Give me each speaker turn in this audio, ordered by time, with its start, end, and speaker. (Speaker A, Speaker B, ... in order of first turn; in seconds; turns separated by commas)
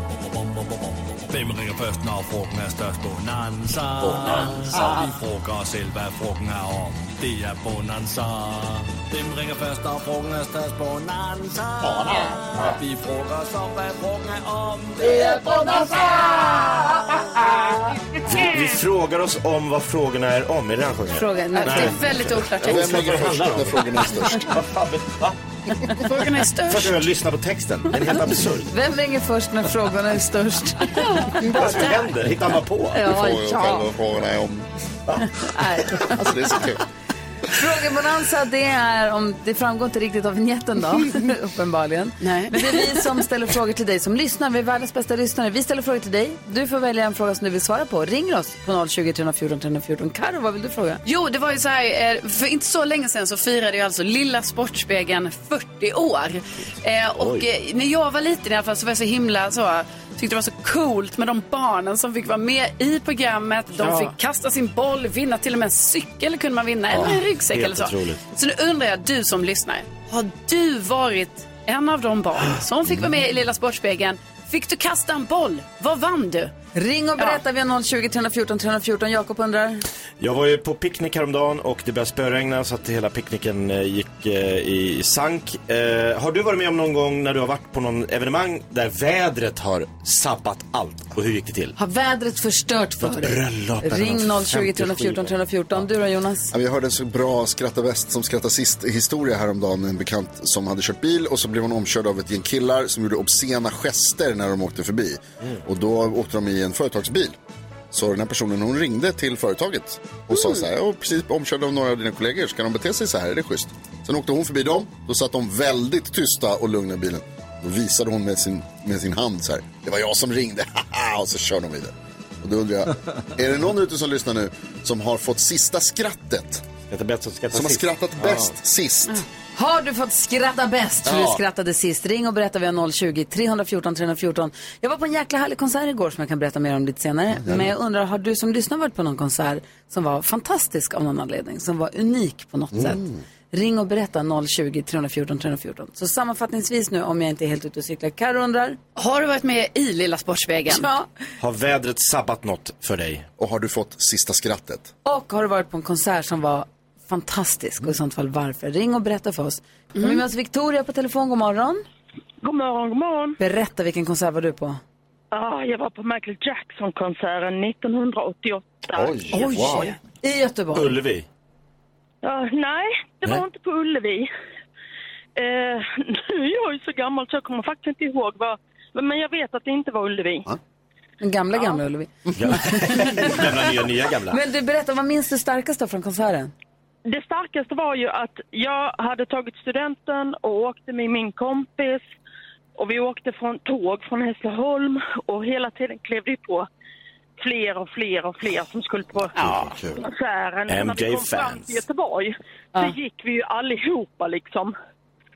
Speaker A: 1.3-15.9, Speaker B: 4.0-4.9, Speaker B: 11.9-12.2, Speaker C: 15.1-16.9, Speaker D: 18.2-25.4, Speaker C: 21.1-22.0, Speaker E: 21.5-23.3, Speaker B: 22.6-24.6, Speaker E: 26.0-27.0, Speaker D: 26.6-28.7, Speaker C: 28.7-31.9, Speaker E: 31.0-31.5, Speaker D: 31.5-33.0, Speaker C: 32.9-33.9, Speaker B: 33.0-34.7, Speaker D: 35.1-35.3, Speaker C: 35.4-36.3, Speaker B: 36.0-36.8, Speaker C: 37.5-51.0, Speaker E: 42.2-43.1, Speaker E: 51.0-76.5, Speaker D: 57.2-57.5, Speaker C: 63.8-64.1, Speaker D: 66.9-68.2, Speaker C: 76.7-79.8, Speaker D: 80.2-91.8, Speaker C: 91.8-96.5, Speaker D: 93.0-95.3, Speaker B: 96.5-107.3, Speaker B: 107.9-126.7, Speaker D: 126.9-128.5, Speaker B: 127.5-129.2, Speaker C: 129.6-148.8, Speaker B: 131.0-131.4, Speaker B: 137.4-137.7, Speaker B: 142.7-143.2, Speaker E: 148.9-150.9, Speaker C: 150.7-151.1, Speaker D: 151.4-153.3, Speaker B: 153.4-154.9, Speaker C: 155.0-161.8, Speaker E: 159.9-160.2, Speaker F: 162.4-163.4, Speaker C: 163.4-164.8, Speaker F: 165.3-169.2, Speaker B: 168.9-169.9, Speaker E: 169.3-169.9, Speaker C: 170.2-170.9, Speaker D: 170.7-171.3, Speaker F: 172.2-174.3, Speaker F: 175.3-180.5, Speaker C: 181.2-183.5, Speaker D: 182.4-184.4, Speaker C: 184.3-186.5, Speaker F: 187.1-192.0, Speaker F: 192.8-196.7, Speaker F: 197.4-204.7, Speaker B: 199.3-200.0, Speaker D: 200.7-201.8